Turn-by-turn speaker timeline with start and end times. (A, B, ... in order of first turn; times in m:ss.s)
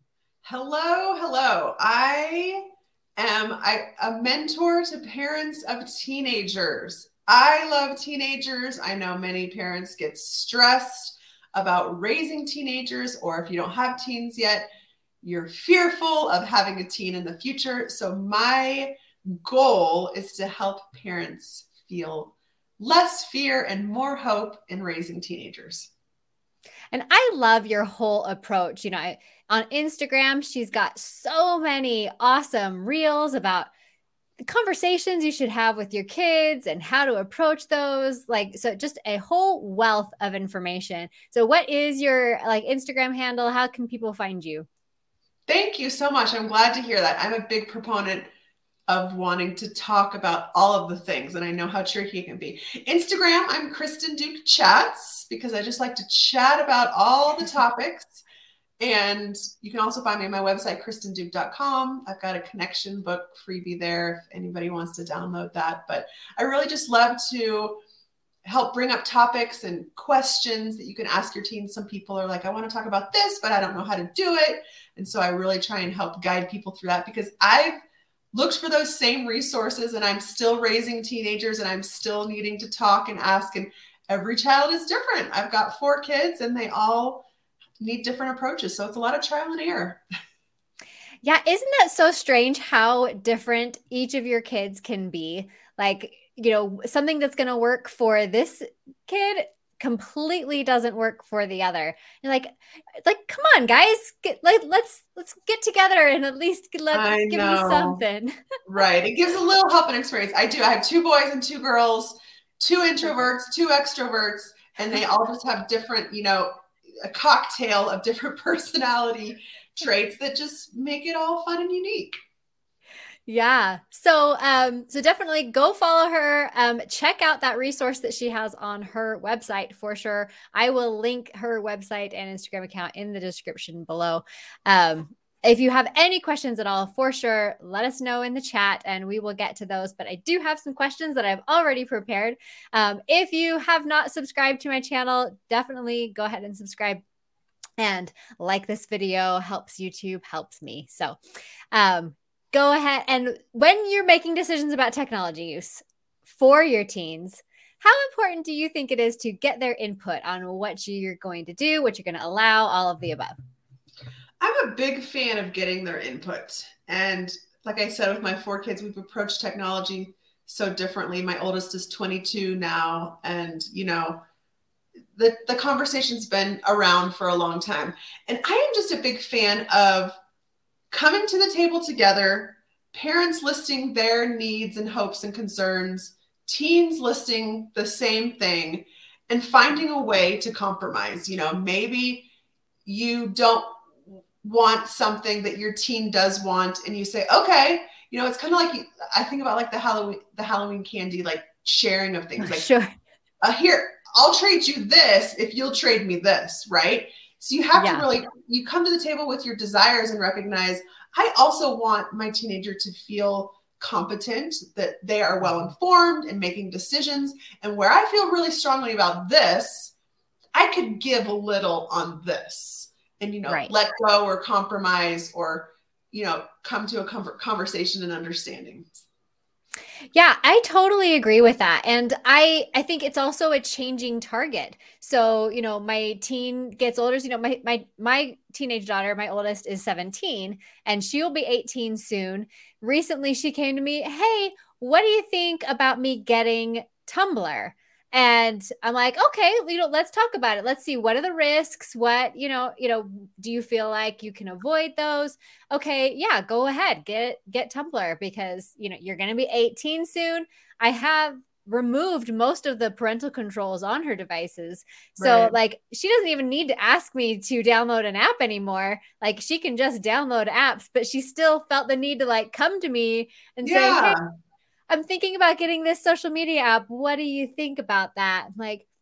0:00.4-0:02.6 A
0:03.2-0:14.7 A
0:15.2-0:25.9 A
0:26.9-0:33.7 B
0:34.4-0:44.7 B
0:45.5-0:48.3 A
0:48.9-0:58.2 A
0:58.8-1:07.8 A
1:08.4-1:17.8 A
1:18.3-1:27.3 A
1:27.8-1:30.0 A
1:31.2-1:48.4 B
1:46.9-1:48.0 A
1:48.7-2:02.2 A
2:03.3-2:27.0 B
2:27.8-2:31.2 B
2:31.7-2:43.4 B
2:44.4-2:54.2 A
2:55.2-3:00.2 A
3:00.9-3:12.3 A
3:12.8-3:22.7 A
3:22.4-3:22.9 B
3:23.4-3:39.9 A
3:27.8-3:28.1 B
3:40.5-3:49.0 A
3:50.1-4:34.2 B
4:25.2-4:25.6 A
4:33.6-4:34.2 A
4:34.9-4:38.9 B